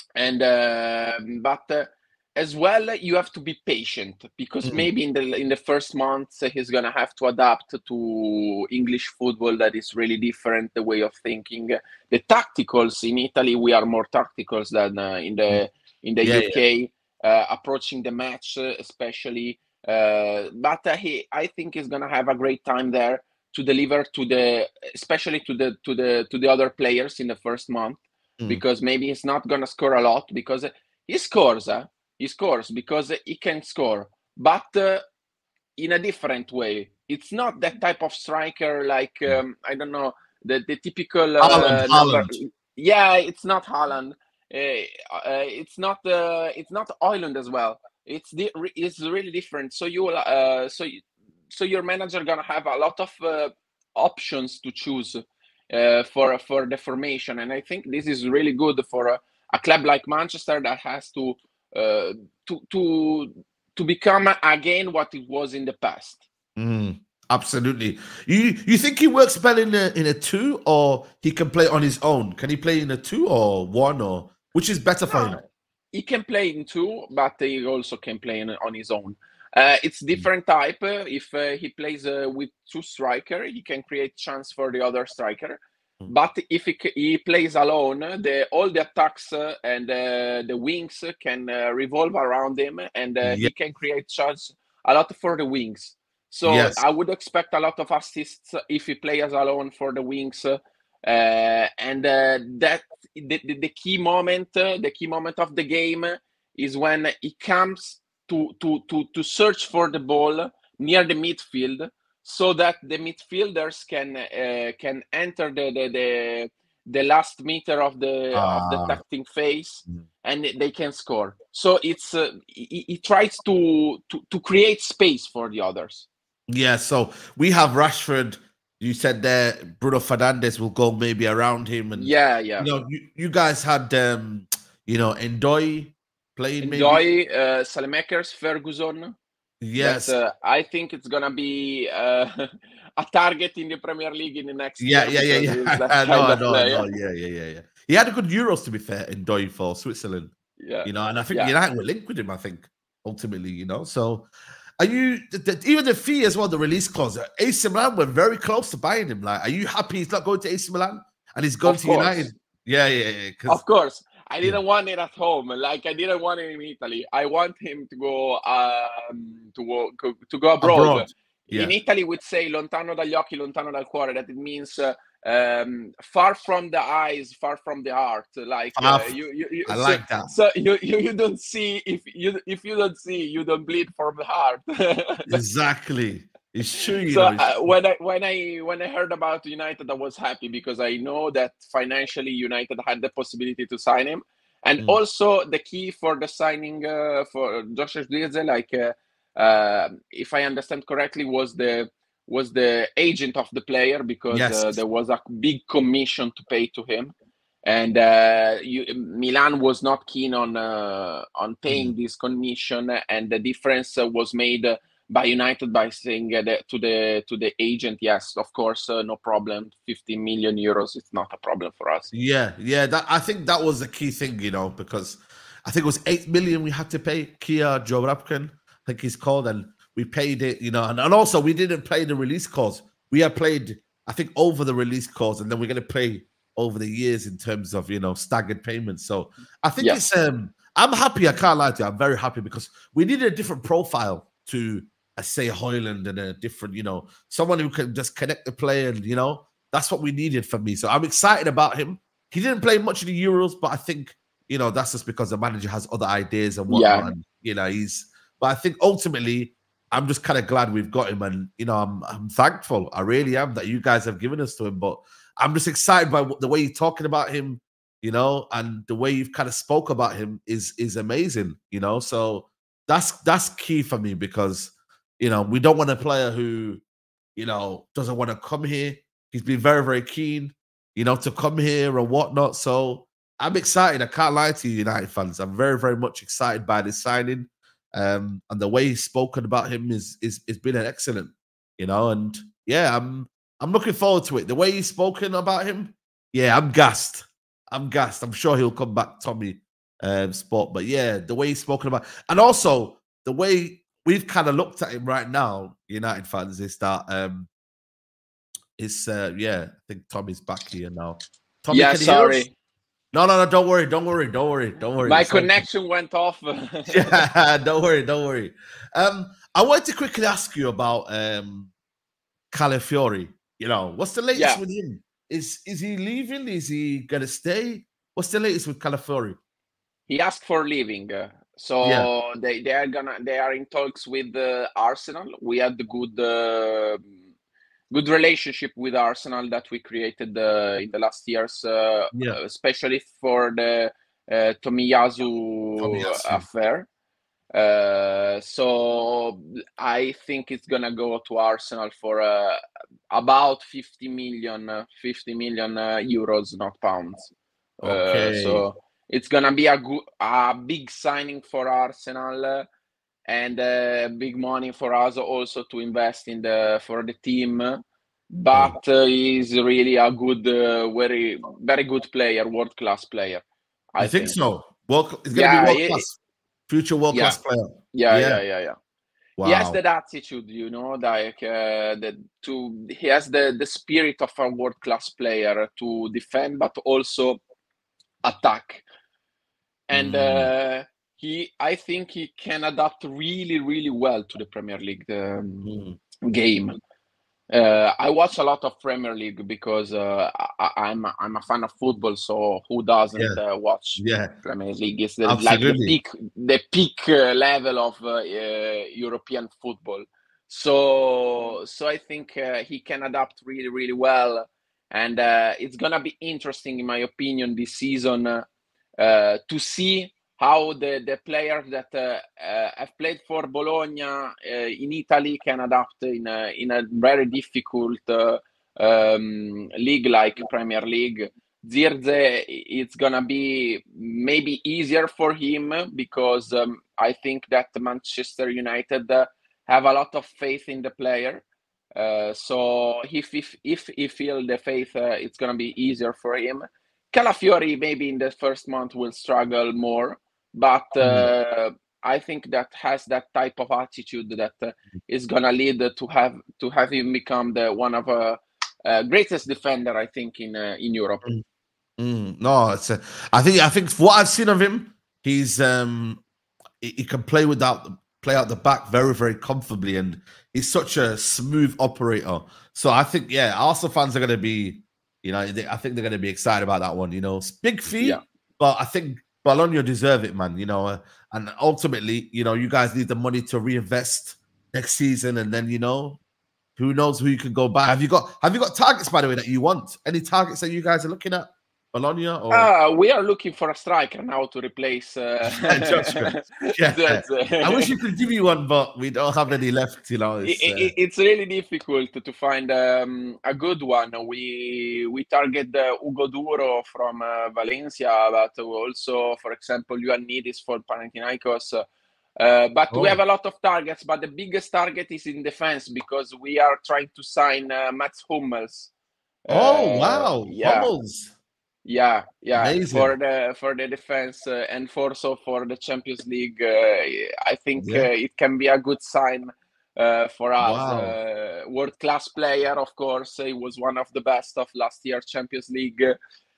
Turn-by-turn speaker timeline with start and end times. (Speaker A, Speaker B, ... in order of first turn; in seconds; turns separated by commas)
Speaker A: 0.1-35.0, Speaker B: 16.2-16.6, Speaker A: 35.8-66.2, Speaker B: 41.4-42.4, Speaker B: 66.6-75.4, Speaker A: 75.1-126.1, Speaker B: 93.2-93.5, Speaker B: 96.5-96.8, Speaker B: 118.3-119.0, Speaker B: 126.5-137.0, Speaker A: 131.9-132.7, Speaker A: 136.6-139.1, Speaker B: 139.6-140.2, Speaker A: 139.8-146.9, Speaker B: 144.8-150.3, Speaker A: 150.6-151.5, Speaker B: 150.8-154.3, Speaker B: 154.8-163.6, Speaker A: 161.6-162.3, Speaker A: 163.5-185.4, Speaker B: 170.6-171.7, Speaker B: 178.8-179.1, Speaker B: 179.7-180.3, Speaker B: 185.3-187.7, Speaker A: 187.0-207.1, Speaker B: 204.3-204.8, Speaker A: 207.7-222.1, Speaker B: 211.7-211.9, Speaker B: 222.1-276.8, Speaker A: 256.7-257.1, Speaker B: 277.4-307.5, Speaker B: 308.8-312.5, Speaker A: 311.7-312.5, Speaker B: 313.1-315.6, Speaker A: 315.0-317.2, Speaker B: 316.9-321.7, Speaker B: 322.5-329.4, Speaker A: 324.3-324.6, Speaker A: 330.1-337.1, Speaker A: 337.9-346.9, Speaker B: 342.1-342.4, Speaker B: 345.8-346.4, Speaker A: 347.5-352.6, Speaker A: 353.1-362.7, Speaker B: 357.8-358.6, Speaker A: 363.3-367.8, Speaker A: 368.3-373.4, Speaker A: 373.9-374.4, Speaker B: 374.0-376.1, Speaker A: 375.3-376.0, Speaker B: 376.7-378.4, Speaker A: 377.1-377.4, Speaker A: 377.9-378.8, Speaker B: 379.4-379.8, Speaker A: 379.4-387.4, Speaker A: 388.2-388.9, Speaker A: 389.9-395.7, Speaker B: 389.9-390.5, Speaker B: 395.6-396.0, Speaker A: 396.2-396.8, Speaker A: 397.5-418.5, Speaker B: 404.0-404.3, Speaker B: 405.2-406.0, Speaker A: 419.0-441.4, Speaker A: 442.0-461.2, Speaker B: 451.0-451.3, Speaker B: 462.0-466.2, Speaker B: 466.8-486.2, Speaker B: 486.8-492.7, Speaker A: 492.5-497.9, Speaker B: 495.5-500.9, Speaker A: 500.4-511.8, Speaker A: 512.4-518.9, Speaker B: 512.9-513.2, Speaker A: 519.5-520.9, Speaker B: 519.5-521.3, Speaker A: 521.8-536.2, Speaker B: 522.5-523.1, Speaker B: 527.8-528.1, Speaker B: 530.6-531.2